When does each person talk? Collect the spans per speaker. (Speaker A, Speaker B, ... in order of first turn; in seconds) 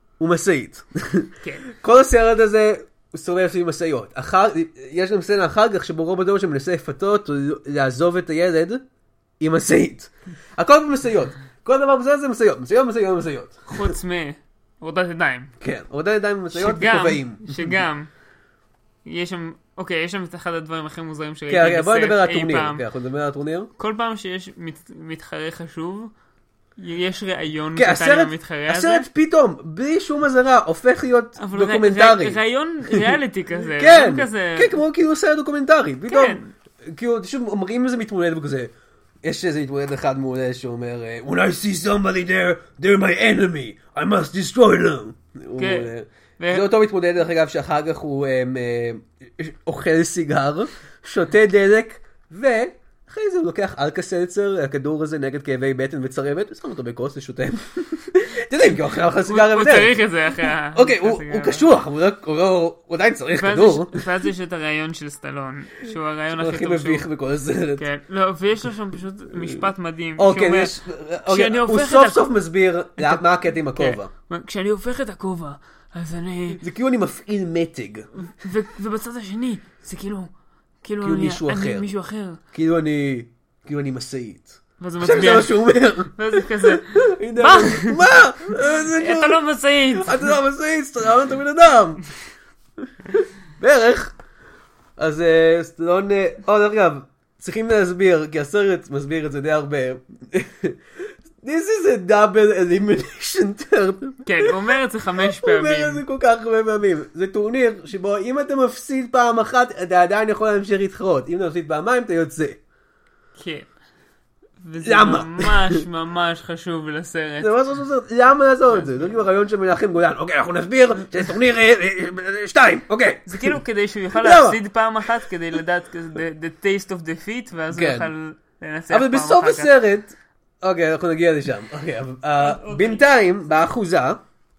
Speaker A: 0.2-8.8, 9.4-13.9, 15.6-17.8, 21.5-23.7, 27.8-32.4, 33.8-38.7, 39.2-64.1, 66.3-67.8, 70.2-74.1, 76.6-78.1, 81.0-81.9, 82.5-89.4, 90.0-92.0, 93.1-94.2, 95.0-100.8, 101.4-104.5, 105.2-112.6, 114.8-115.8, 117.4-123.6, 124.2-124.6, 127.7-128.1, 128.9-134.2
Speaker B: 13.7-15.5, 16.5-18.1, 19.1-22.8, 23.8-26.1, 26.8-29.1, 31.4-34.8, 36.1-36.5, 45.6-46.7, 59.3-61.6, 63.4-67.1, 67.8-70.8, 71.3-72.3, 73.0-73.2, 73.7-76.6, 78.2-80.3, 80.8-82.4, 84.8-85.6, 86.2-90.4, 104.3-106.0, 113.4-113.7, 114.6-117.5, 118.7-119.2, 123.3-129.7, 132.4-133.1